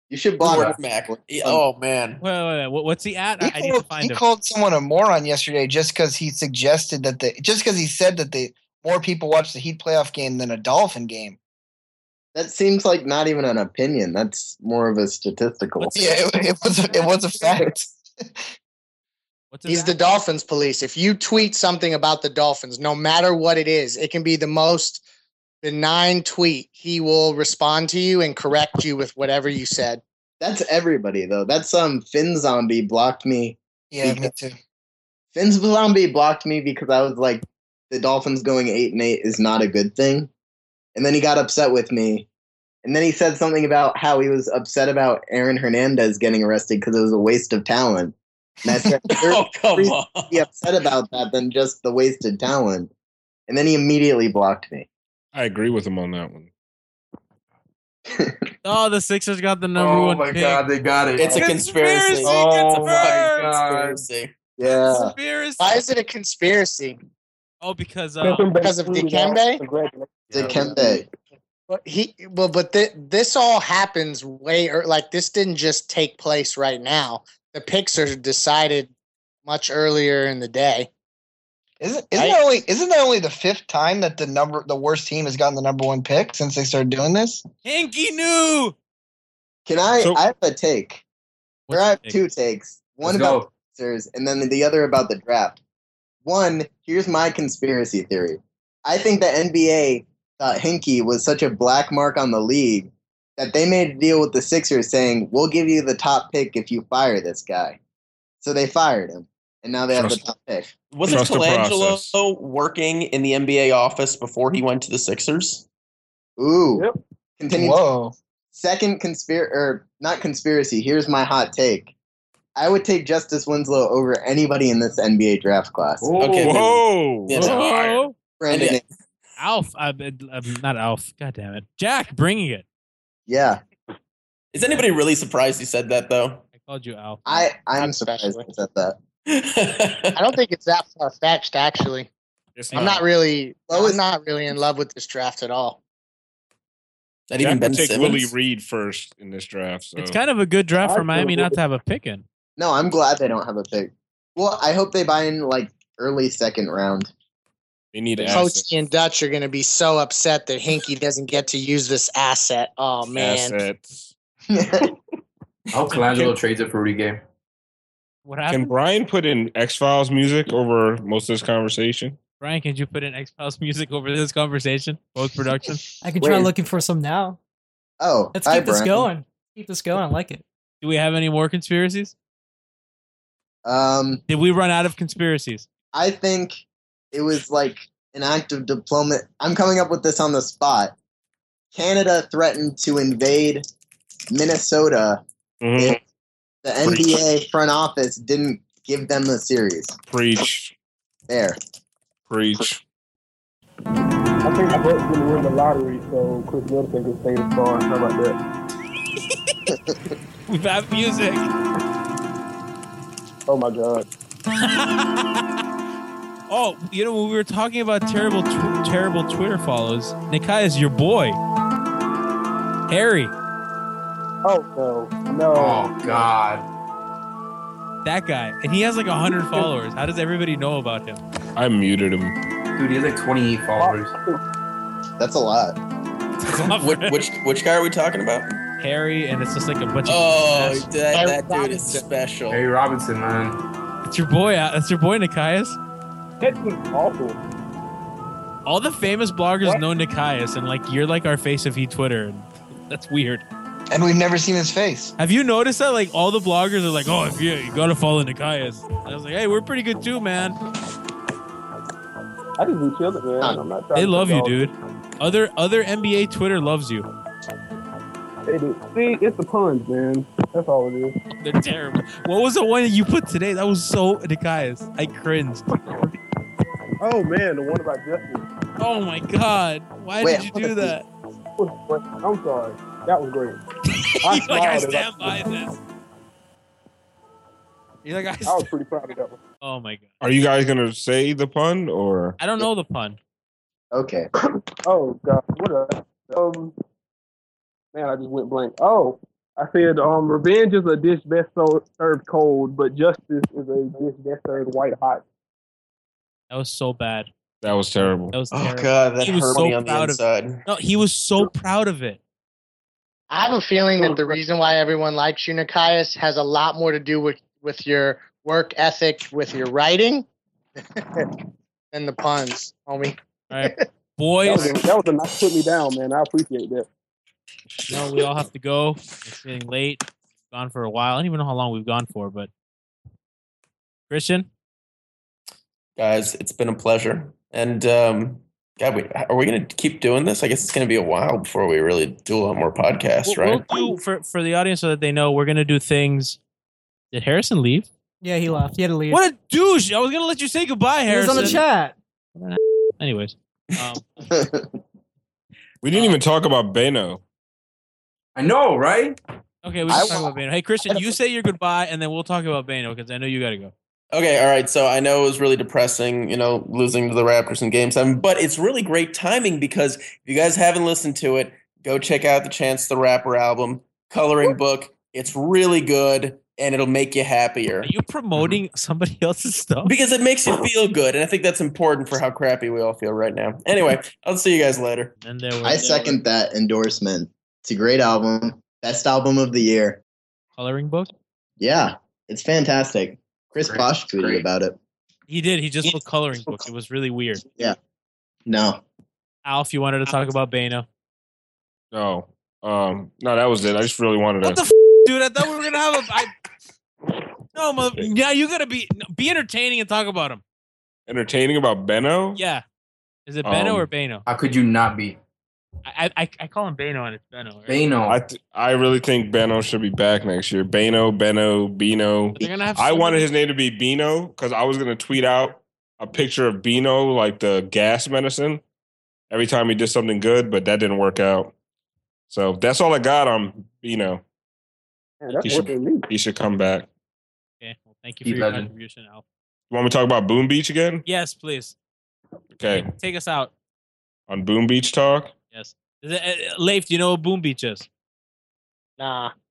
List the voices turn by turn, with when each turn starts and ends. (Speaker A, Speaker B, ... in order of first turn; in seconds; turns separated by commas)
Speaker A: 0.1-1.6, Speaker B: 0.4-2.2, Speaker C: 2.2-4.2, Speaker D: 3.4-11.4, Speaker A: 12.3-16.1, Speaker D: 15.8-18.4, Speaker A: 17.4-17.7, Speaker C: 19.5-20.0, Speaker E: 19.7-25.0, Speaker E: 25.6-30.0, Speaker A: 30.4-34.3, Speaker D: 33.9-34.6, Speaker A: 35.3-40.3, Speaker A: 41.0-42.3, Speaker A: 42.8-52.9, Speaker B: 49.1-50.5, Speaker A: 53.5-54.9, Speaker F: 55.3-56.5, Speaker A: 58.1-58.4, Speaker C: 58.6-60.6, Speaker G: 59.8-61.6, Speaker B: 61.2-64.3, Speaker C: 61.2-63.5, Speaker G: 62.2-64.0, Speaker A: 64.6-65.1, Speaker C: 64.7-65.8, Speaker E: 65.6-67.0, Speaker C: 67.6-68.5, Speaker H: 68.2-71.1, Speaker E: 68.6-69.6, Speaker A: 70.3-71.1, Speaker E: 71.7-78.9, Speaker E: 79.5-80.9, Speaker D: 81.8-87.4, Speaker C: 87.7-88.8, Speaker A: 89.7-91.0, Speaker C: 91.7-92.2, Speaker A: 91.7-95.6, Speaker G: 93.0-93.5, Speaker A: 96.2-107.8, Speaker A: 108.4-110.7, Speaker F: 109.9-110.2, Speaker B: 110.9-115.7, Speaker F: 111.0-112.2, Speaker A: 116.4-116.9, Speaker A: 117.4-117.8, Speaker D: 117.5-118.2, Speaker A: 118.5-121.9, Speaker A: 122.6-126.1, Speaker G: 126.0-126.8, Speaker B: 126.2-126.7, Speaker F: 126.4-128.0, Speaker B: 127.3-127.7, Speaker C: 127.3-128.1, Speaker A: 128.4-128.8, Speaker B: 128.5-128.8, Speaker C: 129.4-132.6, Speaker A: 133.3-133.6, Speaker B: 134.5-136.4, Speaker C: 136.6-137.2, Speaker A: 137.2-139.0, Speaker E: 137.3-138.5, Speaker B: 139.3-140.2, Speaker E: 140.2-142.1, Speaker F: 142.6-143.0, Speaker E: 142.7-145.8, Speaker A: 143.7-144.0, Speaker B: 147.3-148.3, Speaker F: 147.4-150.2, Speaker C: 150.0-152.2, Speaker H: 150.8-151.6, Speaker A: 152.6-157.1, Speaker F: 157.9-158.7, Speaker A: 158.2-158.4, Speaker E: 158.3-163.6, Speaker F: 163.2-164.1, Speaker A: 164.5-164.9, Speaker G: 165.7-167.2, Speaker C: 168.2-168.7, Speaker F: 168.5-172.2, Speaker C: 172.4-175.8, Speaker I: 176.0-177.4, Speaker A: 176.2-176.5, Speaker A: 178.0-179.1, Speaker I: 178.3-180.4, Speaker C: 180.8-182.1, Speaker A: 183.7-184.2, Speaker C: 184.3-185.7, Speaker A: 185.9-190.9, Speaker A: 191.7-193.7, Speaker A: 194.3-195.2, Speaker F: 195.6-196.0, Speaker A: 196.6-200.0, Speaker F: 200.1-200.7, Speaker A: 201.3-201.6, Speaker F: 202.3-202.8, Speaker H: 204.4-208.4, Speaker C: 210.5-211.5, Speaker H: 213.5-214.1, Speaker C: 214.6-215.4, Speaker C: 216.5-221.4, Speaker C: 222.9-223.3, Speaker H: 224.4-226.3, Speaker G: 225.6-226.7, Speaker C: 228.0-231.2, Speaker H: 229.4-229.7, Speaker F: 231.6-232.4, Speaker G: 232.8-234.1, Speaker H: 233.8-234.4, Speaker A: 235.2-235.8, Speaker C: 236.4-237.2, Speaker B: 236.8-238.6, Speaker C: 238.8-240.9, Speaker B: 240.1-242.6, Speaker E: 241.1-242.0, Speaker G: 242.5-243.6, Speaker C: 244.1-245.8, Speaker H: 246.4-247.4, Speaker C: 248.7-253.4, Speaker D: 253.9-255.1, Speaker C: 255.2-260.6, Speaker H: 262.6-264.7, Speaker C: 263.9-267.1, Speaker H: 268.5-271.2, Speaker C: 271.4-275.7, Speaker H: 277.0-278.5, Speaker C: 278.8-281.1, Speaker A: 280.2-280.9, Speaker H: 281.6-283.6, Speaker H: 284.2-285.5, Speaker C: 284.2-285.8, Speaker C: 288.1-288.7, Speaker H: 288.5-289.4, Speaker C: 289.6-290.1, Speaker F: 290.2-292.4, Speaker C: 292.4-293.2, Speaker A: 293.9-294.3, Speaker H: 294.8-296.7, Speaker H: 297.9-305.2, Speaker C: 306.5-307.3, Speaker F: 307.6-308.4, Speaker C: 308.0-312.2, Speaker B: 308.5-310.6, Speaker E: 313.3-320.3, Speaker H: 314.0-314.4, Speaker E: 321.9-323.2, Speaker C: 323.5-324.8, Speaker H: 324.4-326.9, Speaker C: 327.9-332.5, Speaker C: 334.1-334.5, Speaker B: 336.0-343.8, Speaker C: 343.3-346.4, Speaker C: 347.1-347.9, Speaker I: 348.2-349.2, Speaker C: 349.1-351.6, Speaker I: 351.1-351.9, Speaker C: 352.4-354.3, Speaker A: 354.3-354.7, Speaker F: 355.8-357.2, Speaker C: 355.9-356.2, Speaker G: 358.4-359.2, Speaker C: 359.6-363.7, Speaker A: 359.9-360.3, Speaker B: 364.1-377.9, Speaker C: 377.8-379.9, Speaker B: 379.9-385.1, Speaker C: 385.2-386.2, Speaker A: 385.6-390.0, Speaker C: 390.6-391.1, Speaker A: 391.6-394.8, Speaker G: 393.6-394.4, Speaker C: 395.3-397.4, Speaker A: 398.5-398.8, Speaker C: 399.4-400.9, Speaker F: 401.9-404.6, Speaker C: 404.4-406.3, Speaker C: 407.5-410.4, Speaker F: 411.1-412.4, Speaker C: 412.4-412.6, Speaker C: 413.3-414.2, Speaker F: 413.4-413.9, Speaker G: 414.3-415.2, Speaker C: 415.9-417.8, Speaker G: 417.7-418.2, Speaker F: 418.1-428.6, Speaker C: 422.4-423.3, Speaker F: 429.3-431.5, Speaker F: 432.3-434.2, Speaker H: 435.2-436.1, Speaker F: 435.4-436.9, Speaker C: 437.6-439.2, Speaker G: 438.2-438.7, Speaker F: 439.7-441.0, Speaker C: 441.1-441.8, Speaker F: 442.6-442.9, Speaker C: 442.8-443.5, Speaker F: 444.3-445.3, Speaker C: 445.5-447.9, Speaker E: 449.0-449.3